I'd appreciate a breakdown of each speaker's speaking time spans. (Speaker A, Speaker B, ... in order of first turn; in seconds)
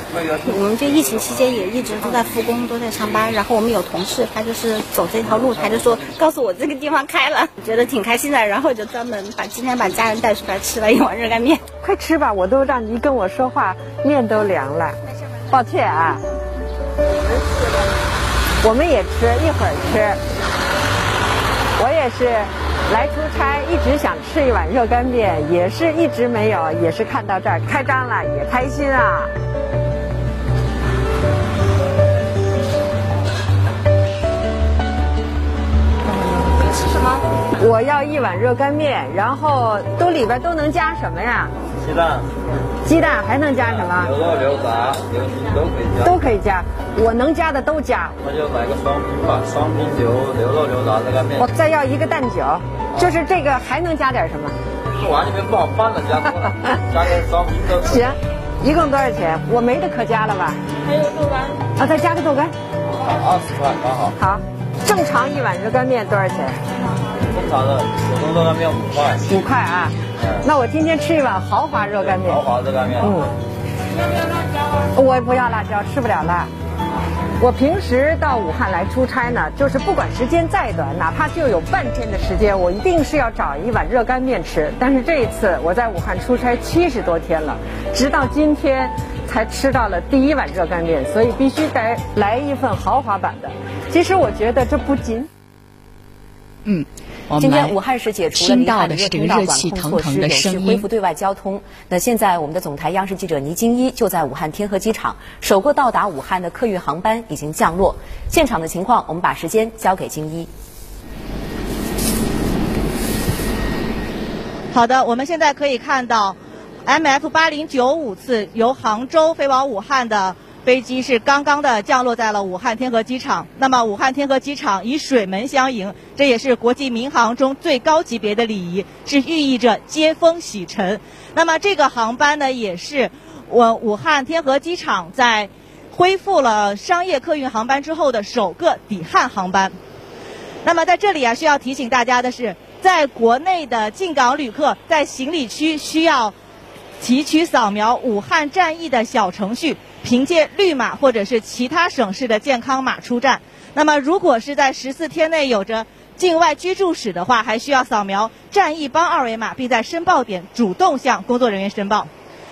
Speaker A: 0.1-0.5, 41.8-42.3, 43.6-46.2, 48.2-51.5, 55.0-58.1, 63.0-64.1, 67.3-69.3, 72.0-73.1
Speaker B: 0.4-11.6, 60.9-61.5
Speaker C: 11.8-15.0, 15.5-16.2, 18.6-20.2, 21.8-29.3, 36.1-36.5, 37.6-41.5, 42.8-44.1, 46.0-48.1, 51.4-54.6, 57.9-60.6, 61.8-62.5, 64.2-66.6, 69.3-72.4, 73.0-73.3, 74.9-76.5, 77.4-95.3
Speaker D: 96.6-97.7, 98.3-100.8
Speaker E: 97.4-110.5
Speaker F: 114.7-139.8, 140.6-146.3, 147.0-162.1